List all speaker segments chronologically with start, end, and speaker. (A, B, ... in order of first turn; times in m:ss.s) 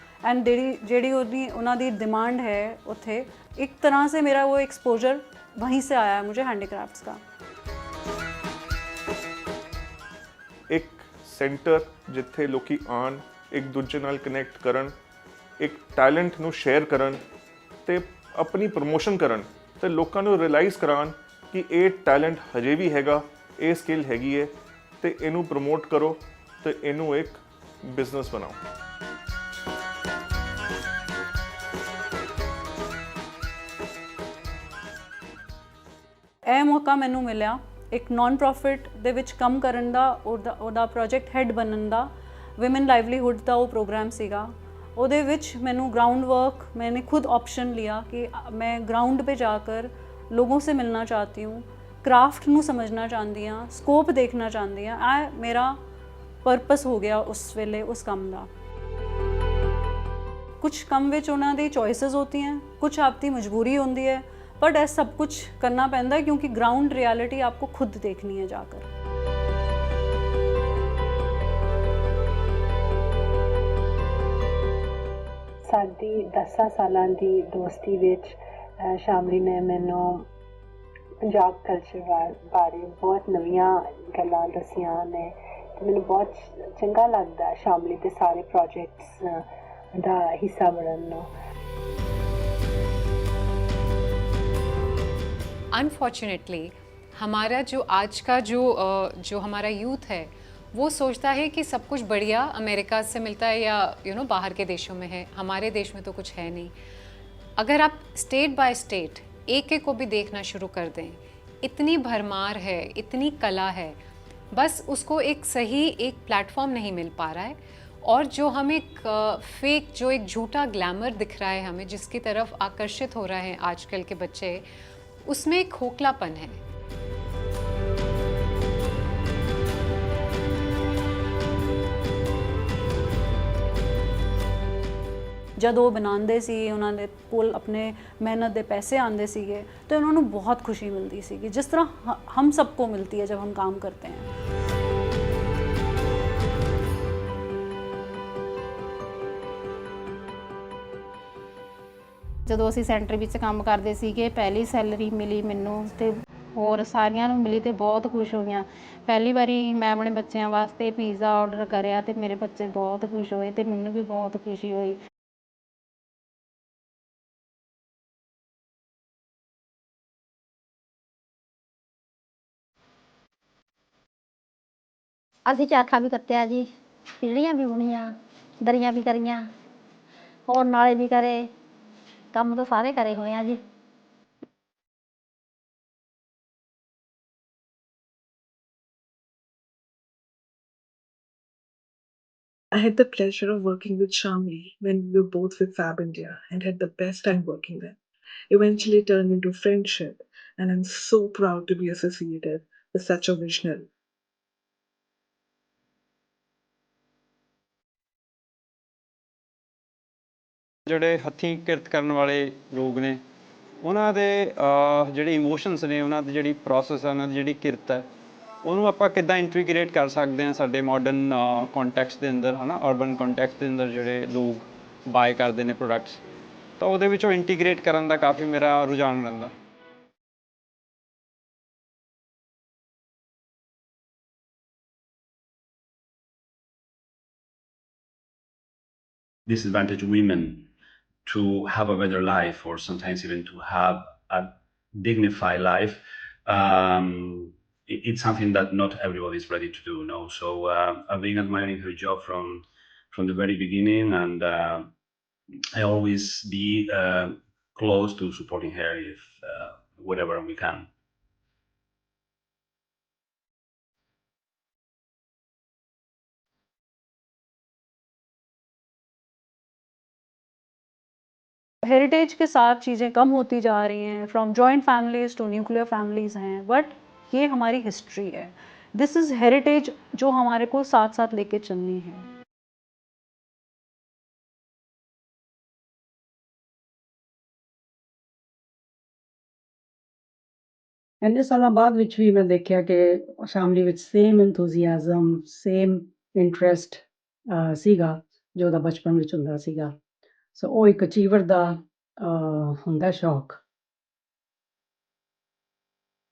0:00.2-0:07.2 A
0:10.7-0:14.9 B
0:15.6-0:17.2 B
0:17.9-0:28.6 B
0:36.5-0:55.8 A
0:56.4-0:58.5 A
1:00.6-1:08.9 A
1:15.7-1:20.3 C
1:21.3-1:29.4 C
1:30.0-1:31.3 C
1:35.7-1:46.7 D
1:47.6-1:54.0 D
1:54.5-2:04.6 D
2:05.3-2:06.6 D
2:15.6-2:24.3 A
2:32.5-2:45.0 E
2:55.5-2:56.7 F
2:57.2-2:59.5 F
3:00.5-3:01.5 F
3:02.3-3:03.6 F
3:12.7-3:18.0 G
3:18.5-3:23.9 G
3:30.9-3:33.2 H
3:33.8-3:38.0 H
3:38.6-3:46.2 H
3:46.8-3:49.5 H
3:59.5-4:00.7 I
4:01.3-4:14.9 I
4:15.7-4:20.9 I
4:31.8-4:42.3 A
4:51.2-5:00.0 J
5:00.6-5:03.6 J